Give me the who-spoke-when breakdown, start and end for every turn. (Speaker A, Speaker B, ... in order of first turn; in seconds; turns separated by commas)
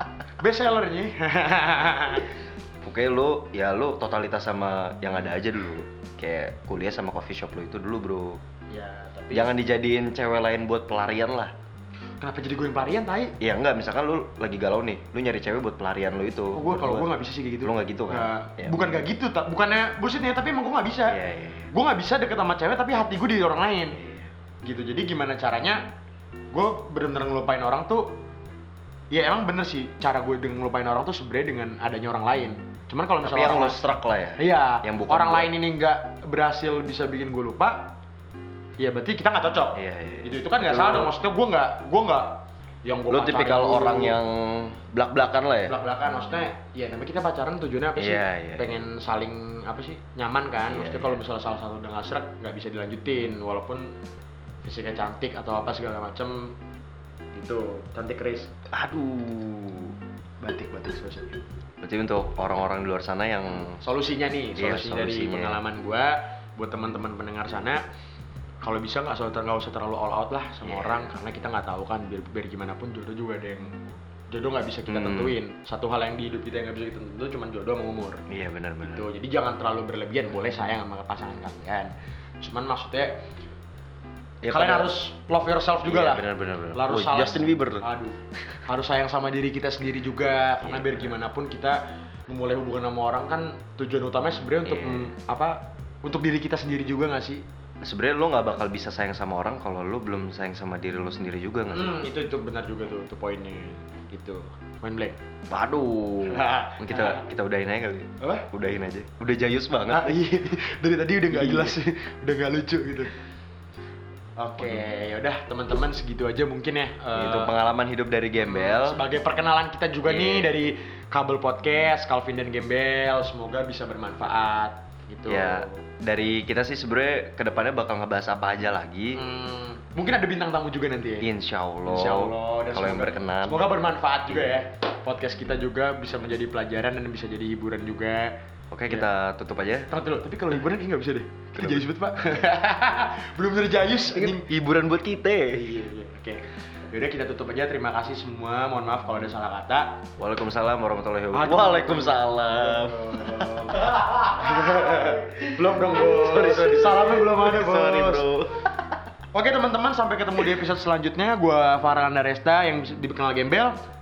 Speaker A: 0.4-2.3, Speaker B: 2.8-8.4, Speaker A: 8.7-9.5, Speaker B: 9.3-11.5, Speaker A: 12.2-13.3, Speaker B: 13.4-17.1, Speaker A: 16.5-21.2, Speaker B: 17.6-18.8, Speaker B: 21.1-21.7, Speaker A: 21.7-24.0, Speaker B: 23.9-24.3, Speaker A: 24.6-25.8, Speaker A: 26.5-28.2, Speaker A: 29.1-33.8, Speaker B: 33.2-35.5, Speaker A: 34.4-37.9, Speaker A: 38.8-44.2, Speaker B: 39.8-41.1, Speaker B: 43.1-45.7, Speaker A: 45.6-53.9, Speaker B: 48.0-48.8, Speaker B: 50.7-51.2, Speaker A: 54.6-56.5, Speaker A: 57.3-58.5, Speaker B: 58.7-60.0, Speaker A: 60.4-61.4, Speaker B: 61.8-63.8, Speaker A: 63.6-67.8, Speaker B: 64.5-65.6, Speaker A: 68.6-78.2, Speaker B: 70.6-71.1, Speaker B: 74.9-75.4, Speaker B: 78.3-79.1, Speaker A: 78.8-83.2, Speaker B: 84.4-84.9, Speaker A: 84.5-97.4, Speaker B: 85.8-87.8, Speaker B: 90.6-91.1, Speaker B: 94.6-95.1, Speaker B: 97.8-102.0, Speaker A: 101.7-105.2, Speaker B: 105.5-110.2, Speaker A: 106.3-107.2, Speaker A: 108.2-108.5, Speaker A: 109.9-113.1, Speaker B: 111.3-111.8, Speaker A: 114.4-117.5, Speaker B: 117.1-119.0, Speaker A: 118.4-125.8, Speaker B: 120.0-120.5, Speaker B: 125.3-129.2, Speaker A: 129.1-131.3, Speaker B: 131.2-133.7, Speaker A: 131.8-138.4, Speaker B: 138.7-139.9, Speaker A: 139.9-144.5, Speaker B: 141.6-141.8, Speaker B: 144.1-145.6, Speaker A: 145.5-150.0, Speaker B: 150.2-158.8, Speaker A: 151.3-158.2, Speaker A: 159.3-163.8